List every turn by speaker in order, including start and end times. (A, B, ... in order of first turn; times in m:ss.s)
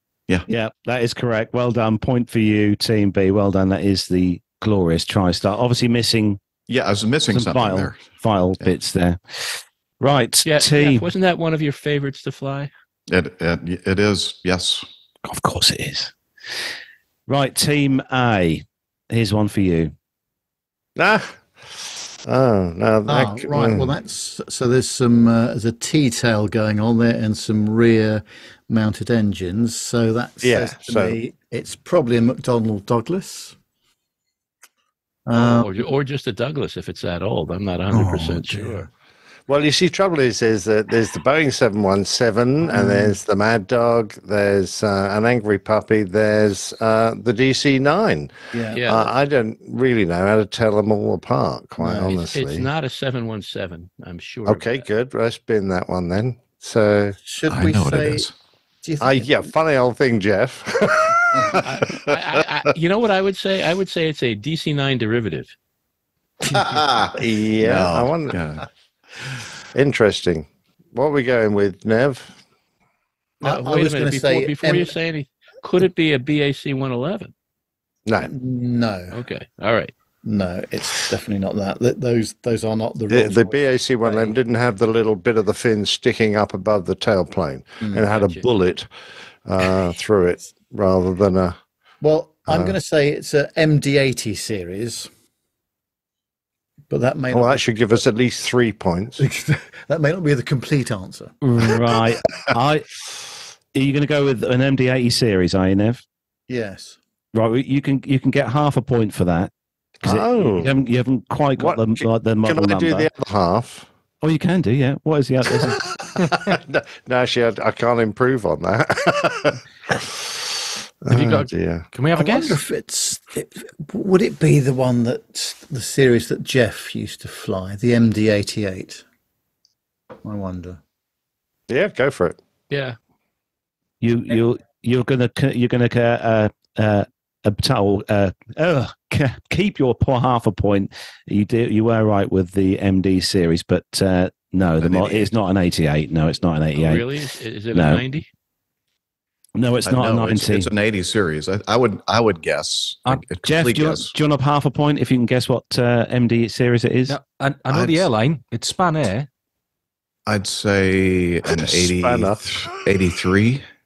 0:00.5-0:06.4 A
0:06.7-0:08.0 B
0:07.3-0:11.1 A
0:10.4-0:12.7 C
0:13.1-0:14.8 B
0:15.2-0:16.1 A
0:17.3-0:19.9 A
0:21.0-0:23.9 D
0:23.1-0:33.6 E
0:30.4-0:31.2 D
0:35.2-0:35.7 E
0:35.3-0:38.9 C
0:37.9-0:38.9 E
0:39.5-0:48.3 D
0:42.6-0:43.2 E
0:48.5-0:48.8 E
0:48.7-0:49.1 C
0:48.8-0:52.6 D
0:51.8-0:52.1 E
0:52.0-0:54.8 C
0:54.5-0:57.2 D
0:57.2-0:58.3 E
0:57.5-0:58.3 B
0:58.8-0:59.3 E
0:59.0-1:02.1 D
1:01.6-1:05.5 C
1:07.1-1:08.4 D
1:07.6-1:08.6 B
1:09.7-1:12.4 D
1:13.4-1:17.3 C
1:13.4-1:14.9 E
1:18.0-1:18.3 D
1:18.2-1:19.2 E
1:19.1-1:19.9 C
1:20.2-1:24.3 E
1:23.1-1:28.9 D
1:27.8-1:28.0 E
1:28.0-1:28.5 C
1:29.4-1:31.6 D
1:32.0-1:35.1 E
1:32.5-1:32.7 D
1:36.9-1:37.9 E
1:37.3-1:39.2 D
1:39.2-1:41.3 E
1:41.4-1:42.9 A
1:43.7-1:46.0 A
1:46.5-1:47.0 E
1:47.3-1:49.5 A
1:50.0-1:50.7 D
1:50.0-1:53.1 A
1:51.6-1:53.9 D
1:54.2-1:55.8 A
1:55.6-2:00.4 D
2:01.0-2:01.9 D
2:01.1-2:02.6 F
2:02.2-2:09.0 E
2:10.2-2:10.8 E
2:11.7-2:12.4 D
2:12.7-2:13.0 C
2:14.0-2:27.0 A
2:24.8-2:25.3 B
2:26.7-2:28.3 C
2:27.7-2:28.0 A
2:29.6-2:30.7 A
2:29.8-2:34.1 B
2:33.4-2:37.2 A
2:37.1-2:39.3 F
2:37.7-2:38.1 B
2:40.3-2:43.6 B
2:41.5-2:42.5 D